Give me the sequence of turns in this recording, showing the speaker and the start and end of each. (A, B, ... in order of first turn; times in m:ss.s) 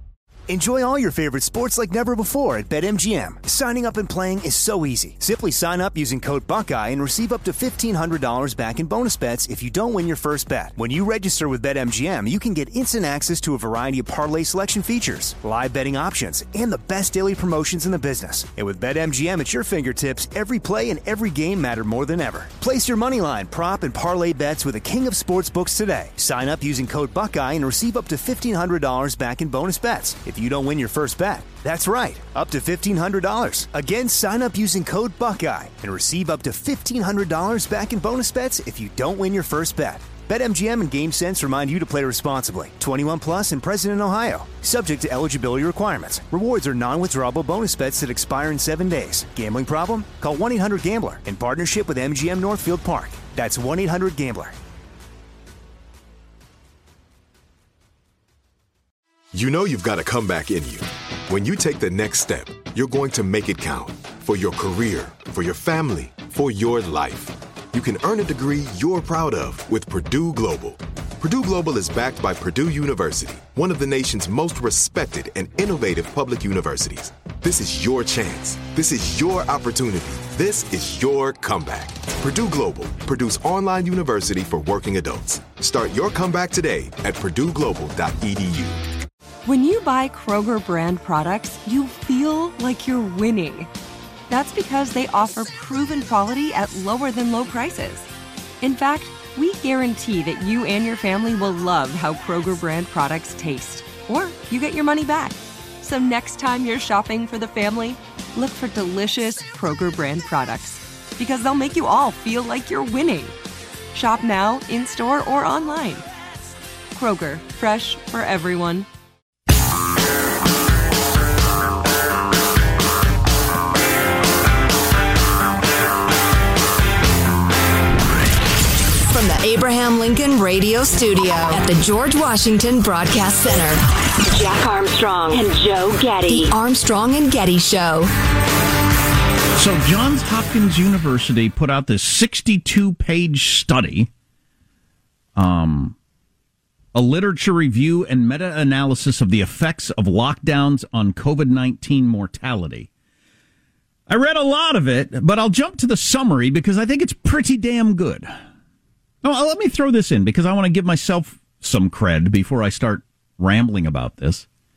0:00.5-0:54.6 A
0:59.3-1:28.8 B
1:29.4-1:33.7 C
1:34.3-1:38.1 C
1:38.6-1:53.3 C
1:53.9-1:56.1 C
1:56.9-1:58.9 C
2:09.1-2:13.8 D
2:14.3-2:16.5 E
2:16.3-2:18.1 D
2:19.6-2:24.1 F
2:25.4-2:26.0 F
2:26.9-2:32.9 F
2:34.1-2:38.3 F
2:39.2-2:44.4 F